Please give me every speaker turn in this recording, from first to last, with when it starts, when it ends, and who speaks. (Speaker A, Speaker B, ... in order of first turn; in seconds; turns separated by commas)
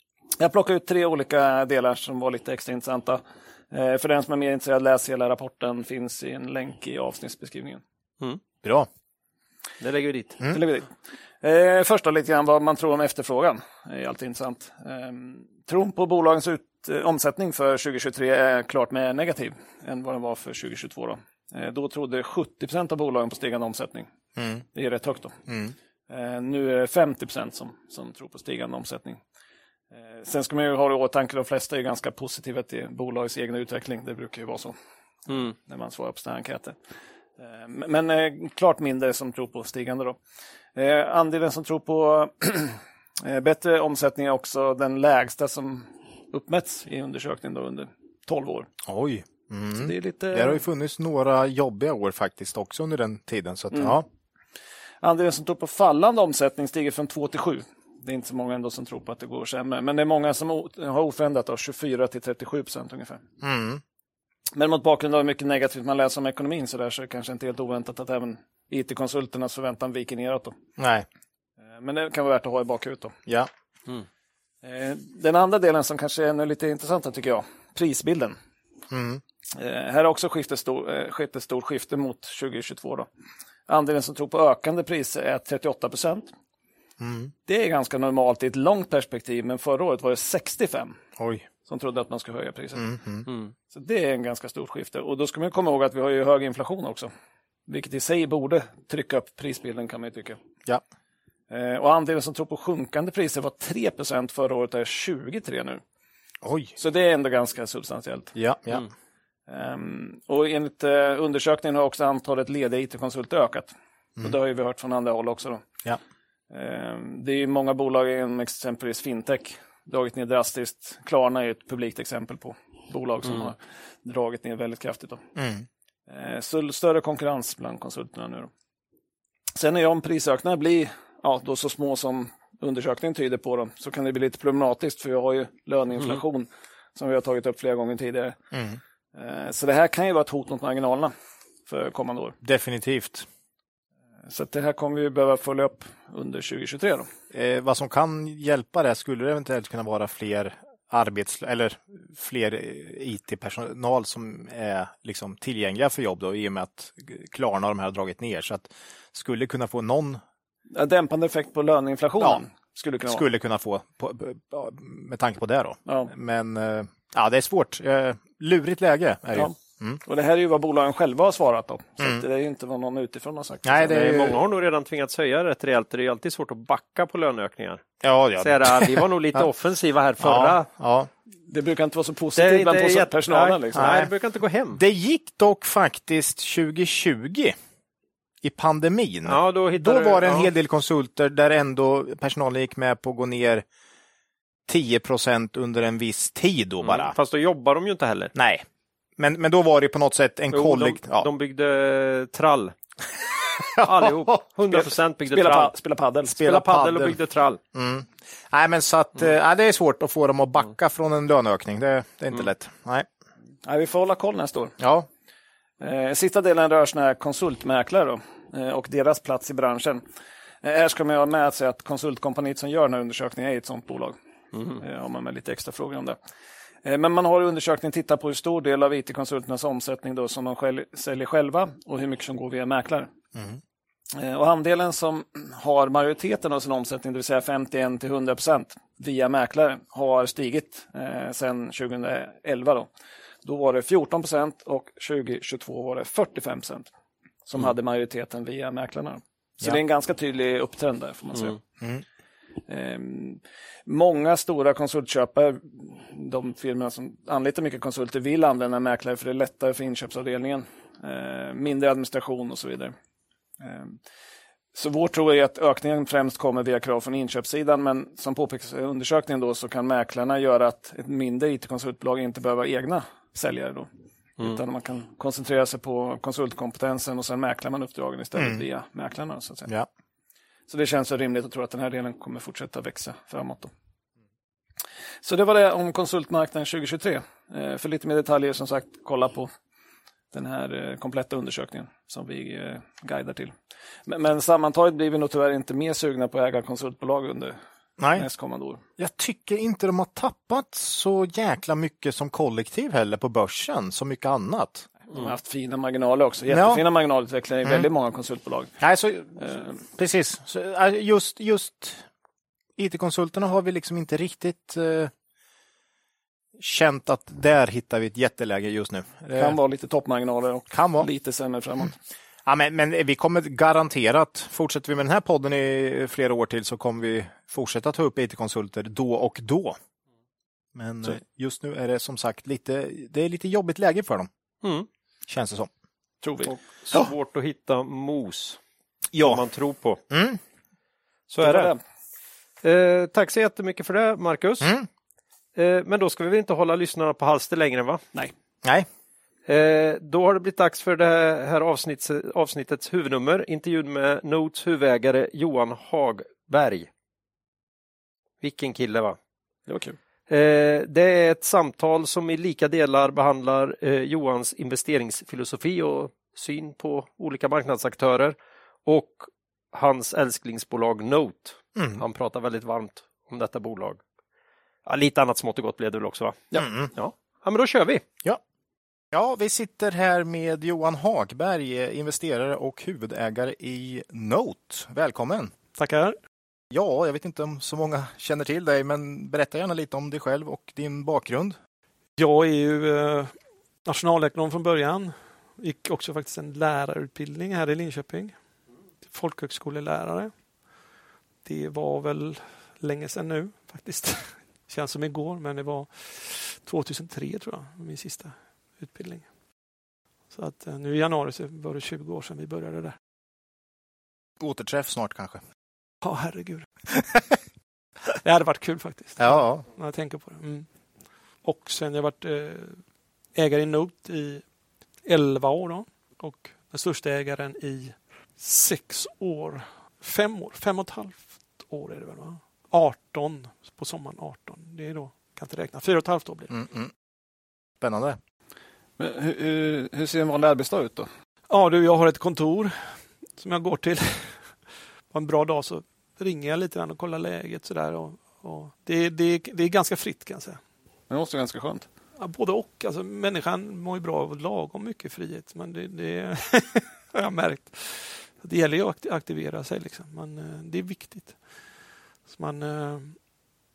Speaker A: 0.4-7.8, Speaker B: 8.6-8.9, Speaker C: 9.8-10.4, Speaker B: 10.4-10.6, Speaker A: 10.5-10.9, Speaker A: 11.4-24.1, Speaker B: 24.4-24.6, Speaker A: 24.7-25.4, Speaker B: 25.5-25.7, Speaker A: 26.1-29.2, Speaker A: 29.9-34.8, Speaker C: 35.3-35.5, Speaker A: 35.3-36.8, Speaker A: 37.4-40.2, Speaker A: 40.8-48.7, Speaker B: 48.9-54.0, Speaker A: 49.8-50.6, Speaker A: 53.7-54.0, Speaker A: 55.0-63.2, Speaker B: 63.4-63.8, Speaker A: 64.6-70.6, Speaker B: 70.8-71.1, Speaker A: 71.7-73.2, Speaker A: 74.6-78.3, Speaker B: 78.9-79.2, Speaker A: 79.5-83.1, Speaker A: 83.7-86.3, Speaker B: 87.0-87.3, Speaker A: 87.5-91.0, Speaker B: 91.2-91.5, Speaker A: 91.7-92.9, Speaker B: 92.8-93.3, Speaker C: 93.3-93.5, Speaker A: 93.7-97.1, Speaker A: 97.7-100.4, Speaker A: 101.5-105.8, Speaker B: 106.4-106.7, Speaker A: 106.8-108.3, Speaker B: 108.3-108.8, Speaker A: 109.5-115.6, Speaker A: 116.5-125.2, Speaker B: 125.4-125.7, Speaker A: 126.1-128.5, Speaker A: 129.6-138.4, Speaker B: 138.5-138.8, Speaker A: 139.2-141.1, Speaker A: 141.7-142.4, Speaker B: 142.4-143.3, Speaker A: 144.3-147.1, Speaker B: 147.3-160.2, Speaker A: 160.7-163.2, Speaker B: 163.1-170.0, Speaker A: 165.9-166.1, Speaker A: 169.3-174.4, Speaker B: 173.7-174.4, Speaker C: 173.9-177.8, Speaker B: 178.0-179.5, Speaker C: 178.4-180.7, Speaker B: 180.2-181.1, Speaker A: 181.5-183.9, Speaker C: 182.4-184.8, Speaker B: 183.8-184.1, Speaker B: 184.7-187.6, Speaker B: 188.4-193.7, Speaker C: 189.3-190.5, Speaker B: 194.7-197.2, Speaker C: 196.8-198.3, Speaker B: 198.3-198.7, Speaker B: 199.2-201.3, Speaker C: 200.5-202.7, Speaker B: 203.6-204.3, Speaker C: 203.8-205.7, Speaker A: 204.7-206.4, Speaker B: 206.3-207.2, Speaker C: 206.4-207.6, Speaker B: 207.7-213.1, Speaker A: 213.7-214.8, Speaker B: 214.8-215.1, Speaker A: 215.8-220.0, Speaker A: 220.6-224.2, Speaker A: 224.7-226.2, Speaker A: 226.8-233.1, Speaker A: 234.2-242.9, Speaker A: 243.4-246.9, Speaker A: 247.5-251.6, Speaker A: 252.7-262.9, Speaker A: 263.6-264.0, Speaker A: 264.7-273.9, Speaker A: 274.4-279.7, Speaker B: 278.4-278.6, Speaker A: 280.7-283.7, Speaker A: 285.2-289.5, Speaker A: 290.3-293.6, Speaker A: 294.1-297.6, Speaker B: 298.0-298.3, Speaker A: 298.2-298.8, Speaker B: 299.0-304.9, Speaker A: 305.1-308.7, Speaker B: 306.5-306.8, Speaker B: 308.8-312.1, Speaker A: 309.4-309.8, Speaker B: 312.8-315.1, Speaker B: 316.6-319.6, Speaker A: 319.4-322.0, Speaker B: 320.7-321.1, Speaker B: 322.5-329.8, Speaker B: 330.8-334.3, Speaker C: 334.6-334.9, Speaker B: 335.3-335.7, Speaker A: 336.2-336.6, Speaker C: 336.8-338.6, Speaker B: 339.1-339.4, Speaker C: 339.2-340.0, Speaker B: 340.1-340.4, Speaker C: 341.3-341.7, Speaker A: 341.4-341.8, Speaker C: 342.6-344.7, Speaker B: 344.6-344.9, Speaker C: 345.6-348.0, Speaker C: 349.5-356.9, Speaker C: 358.4-359.2, Speaker A: 359.7-360.0, Speaker C: 360.3-374.0, Speaker B: 371.8-372.0, Speaker C: 374.9-378.0, Speaker B: 376.6-376.9, Speaker B: 379.1-385.5, Speaker D: 385.8-386.1, Speaker B: 386.7-391.6, Speaker D: 392.2-398.4, Speaker D: 399.1-400.4, Speaker D: 401.4-409.3, Speaker D: 410.3-412.9, Speaker B: 414.4-415.4, Speaker D: 416.0-416.7, Speaker D: 418.2-420.7, Speaker B: 419.2-419.7, Speaker D: 421.4-424.4, Speaker D: 425.0-436.5, Speaker B: 436.5-436.9, Speaker B: 437.8-438.2, Speaker A: 439.0-441.1, Speaker D: 441.5-450.6, Speaker A: 451.1-451.9, Speaker D: 452.2-461.7, Speaker D: 462.3-463.3